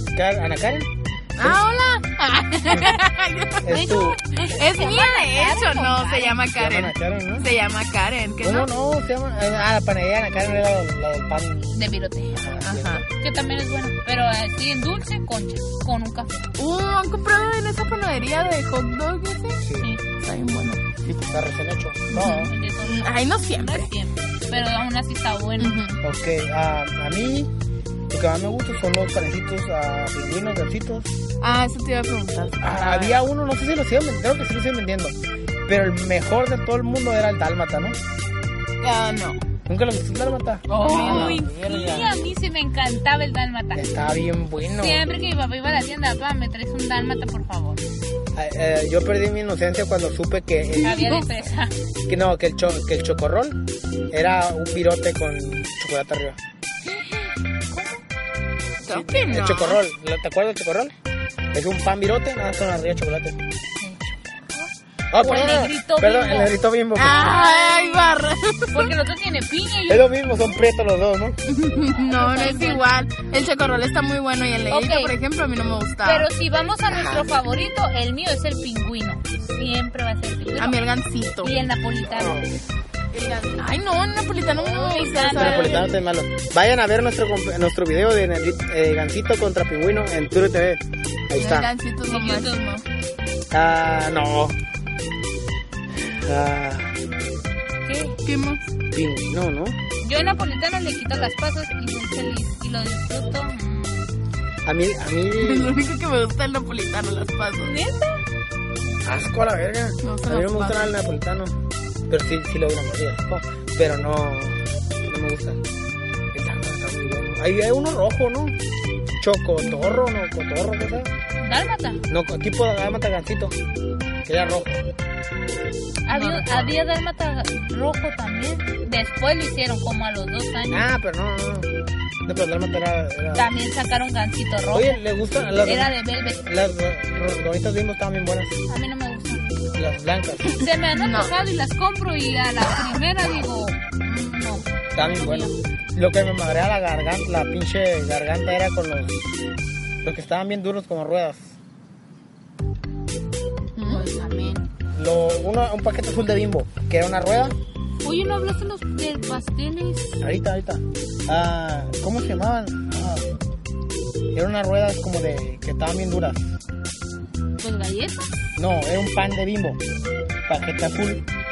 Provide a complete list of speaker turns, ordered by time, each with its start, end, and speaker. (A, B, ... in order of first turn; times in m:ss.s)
0:00.1-0:01.6 A
0:01.4-0:08.7 B
0:03.6-0:04.2 A
0:03.7-0:06.4 C
0:06.6-0:07.5 A
0:08.4-0:11.8 A
0:11.7-0:12.4 C
0:12.3-0:13.0 A
0:12.6-0:13.0 B
0:13.2-0:16.4 C
0:16.6-0:21.0 B
0:19.6-0:19.9 A
0:21.2-0:22.4 A
0:22.1-0:23.9 B
0:22.1-0:25.8 C
0:25.6-0:26.0 B
0:26.0-0:27.5 A
0:28.1-0:31.1 A
0:31.4-0:33.1 B
0:32.6-0:35.2 A
0:35.7-0:38.0 A
0:38.8-0:39.4 B
0:39.6-0:42.1 A
0:40.7-0:41.4 B
0:40.8-0:44.0 C
0:43.7-0:45.0 A
0:44.6-0:47.8 C
0:48.4-0:51.1 A
0:50.8-0:51.7 C
0:50.8-0:51.2 B
0:52.1-0:56.4 A
0:56.8-0:58.0 C
0:58.8-0:59.8 B
0:58.9-1:00.9 A
1:01.5-1:03.4 A
1:03.8-1:04.6 C
1:05.1-1:07.4 A
1:05.2-1:08.2 C
1:07.0-1:08.9 B
1:08.7-1:10.5 C
1:09.9-1:11.4 A
1:11.4-1:16.3 B
1:11.9-1:12.9 C
1:14.7-1:15.1 C
1:16.0-1:20.8 C
1:16.9-1:17.3 A
1:20.6-1:21.5 B
1:21.4-1:22.4 C
1:22.1-1:22.6 A
1:23.1-1:25.9 B
1:24.5-1:25.9 C
1:25.3-1:31.7 A
1:31.4-1:32.8 B
1:32.0-1:32.6 C
1:33.5-1:34.6 A
1:36.1-1:37.0 A
1:37.8-1:38.2 C
1:38.2-1:38.7 B
1:38.9-1:39.8 A
1:40.0-1:44.1 C
1:44.6-1:45.7 A
1:45.4-1:47.7 B
1:47.6-1:48.2 C
1:49.0-1:51.6 A
1:50.0-1:50.9 B
1:52.1-1:55.6 A
1:56.3-1:58.6 A
1:59.2-2:01.1 A
2:01.4-2:02.0 C
2:02.1-2:03.5 A
2:04.2-2:04.8 A
2:06.1-2:10.9 C
2:06.1-2:06.8 A
2:10.7-2:11.7 A
2:12.2-2:13.5 A
2:13.3-2:15.0 C
2:14.7-2:18.6 A
2:15.6-2:16.4 C
2:18.7-2:19.5 C
2:19.7-2:20.6 A
2:20.5-2:25.6 C
2:20.9-2:21.3 B
2:24.9-2:29.2 A
2:30.0-2:31.5 A
2:33.8-2:34.0 B
2:33.8-2:34.7 C
2:34.9-2:37.5 A
2:38.0-2:40.2 C
2:40.2-2:43.2 A
2:44.3-2:46.5 A
2:47.6-2:48.3 C
2:48.6-2:49.8 A
2:50.5-2:51.2 A